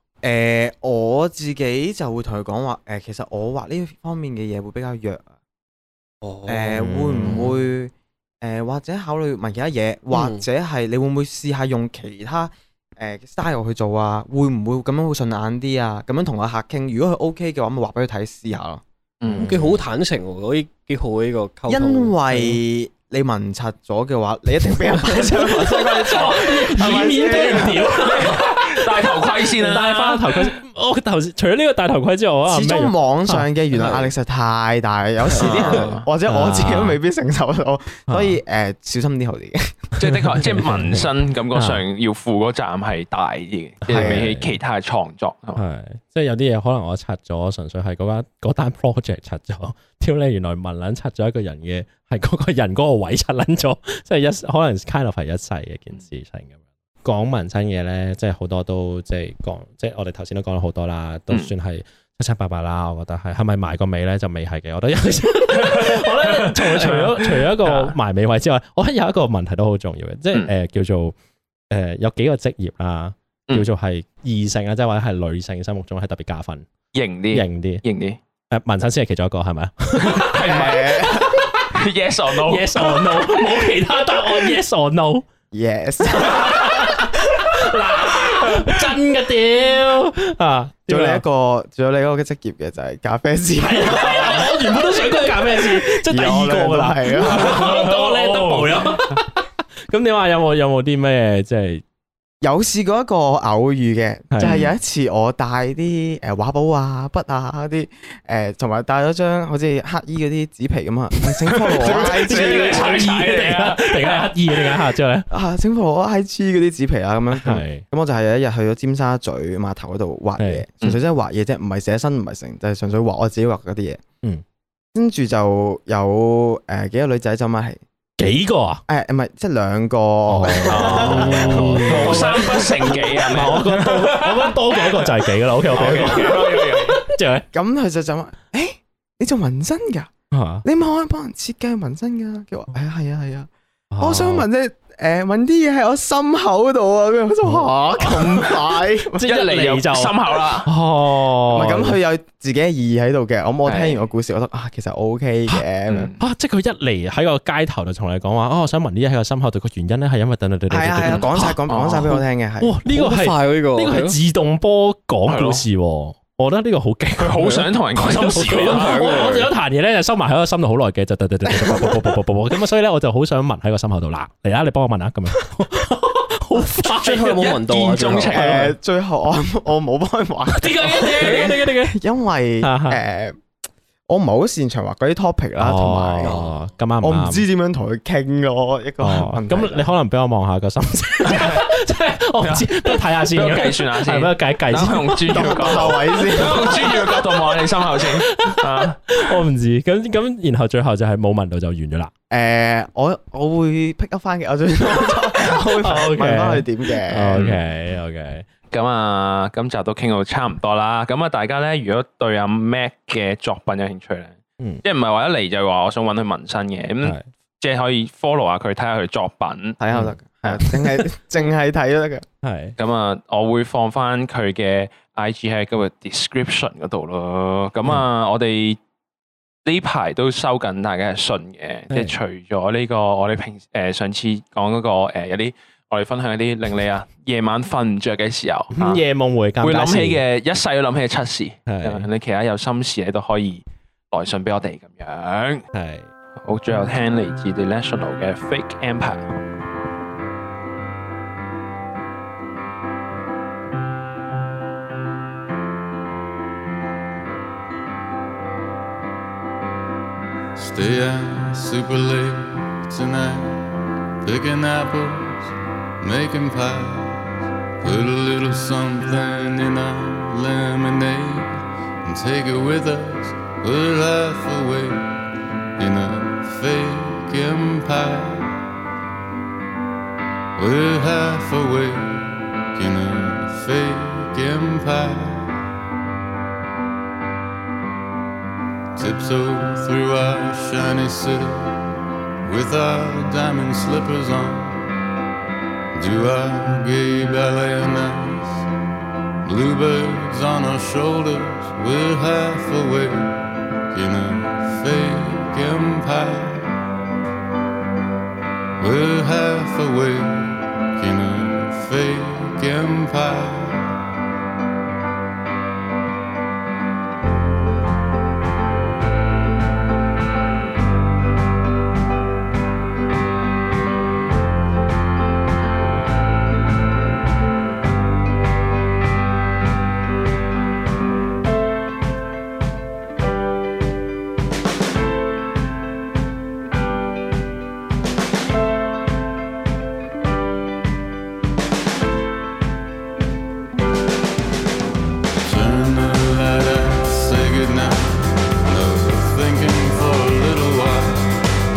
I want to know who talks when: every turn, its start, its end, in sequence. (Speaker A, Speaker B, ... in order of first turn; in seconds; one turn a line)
Speaker A: 0.2-5.3
Speaker B: 6.2-7.5
Speaker A: 6.5-18.8
Speaker C: 6.8-7.5
Speaker B: 10.1-10.4
Speaker D: 19.2-19.5
Speaker C: 19.3-19.8
Speaker B: 19.4-22.6
Speaker A: 21.7-28.3
Speaker C: 25.2-33.5
Speaker D: 26.2-30.5
Speaker A: 32.5-39.9
Speaker B: 33.7-34.1
Speaker B: 35.4-36.0
Speaker D: 35.4-36.0
Speaker C: 36.3-37.0
Speaker C: 38.1-38.4
Speaker D: 40.0-45.6
Speaker C: 40.0-41.8
Speaker C: 43.9-44.5
Speaker A: 43.9-44.2
Speaker C: 45.6-71.1
Speaker D: 65.6-68.0
Speaker C: 71.7-76.7
Speaker D: 76.9-78.2
Speaker C: 77.3-77.8
Speaker C: 78.5-81.7
Speaker D: 80.0-83.0
Speaker A: 80.4-81.3
Speaker C: 82.5-85.2
Speaker A: 85.5-87.1
Speaker C: 86.2-91.2
Speaker A: 90.9-94.5
Speaker C: 93.6-101.8
Speaker D: 94.0-94.5
Speaker A: 95.0-97.8
Speaker D: 97.2-98.9
Speaker A: 102.4-112.9
Speaker C: 104.3-104.6
Speaker D: 104.4-104.7
Speaker C: 111.5-115.3
Speaker D: 111.8-114.3
Speaker A: 115.3-124.0
Speaker C: 117.3-117.8
Speaker C: 120.4-120.7
Speaker A: 124.9-127.8
Speaker C: 128.2-128.8
Speaker A: 128.9-132.3
Speaker C: 130.3-137.4
Speaker B: 130.9-132.2
Speaker D: 131.8-135.1
Speaker D: 135.7-137.0
Speaker A: 135.8-136.3
Speaker A: 137.5-140.1
Speaker C: 140.3-140.7
Speaker A: 140.6-149.3
Speaker C: 143.9-144.5
Speaker C: 147.5-148.5
Speaker C: 149.1-152.0
Speaker D: 149.2-150.7
Speaker A: 151.5-156.1
Speaker D: 153.7-154.0
Speaker D: 155.9-156.2
Speaker C: 156.2-161.6
Speaker A: 160.7-162.8
Speaker B: 161.7-162.1
Speaker C: 162.6-177.2
Speaker B: 162.9-164.2
Speaker D: 165.3-165.6
Speaker D: 167.2-169.3
Speaker B: 168.4-169.5
Speaker A: 171.5-172.1
Speaker B: 176.9-178.7
Speaker D: 177.1-178.7
Speaker A: 178.3-183.4
Speaker C: 180.5-182.0
Speaker D: 181.2-181.5
Speaker C: 182.6-183.0
Speaker A: 184.1-186.3
Speaker C: 185.6-187.4
Speaker B: 186.2-186.5
Speaker A: 187.0-189.9
Speaker C: 189.0-197.4
Speaker D: 191.2-191.7
Speaker D: 192.4-199.2
Speaker A: 195.2-196.9
Speaker C: 197.9-202.1
Speaker A: 202.3-207.4
Speaker C: 205.7-208.5
Speaker D: 208.7-219.8
Speaker A: 219.8-222.2
Speaker C: 219.9-220.6
Speaker C: 222.4-222.8
Speaker D: 222.8-228.8
Speaker D: 229.7-239.0
Speaker C: 231.9-232.2
Speaker C: 238.8-240.2
Speaker D: 239.6-245.7
Speaker C: 241.7-242.1
Speaker C: 245.7-246.1
Speaker D: 246.4-249.2
Speaker E: 260.6-263.7
Speaker E: 264.2-275.2
Speaker E: 275.8-278.6
Speaker E: 280.6-285.6
Speaker E: 289.0-291.8
Speaker E: 292.4-294.9
Speaker E: 295.9-298.6
Speaker E: 299.4-306.8
Speaker E: 308.8-313.9
Speaker E: 345.4-351.4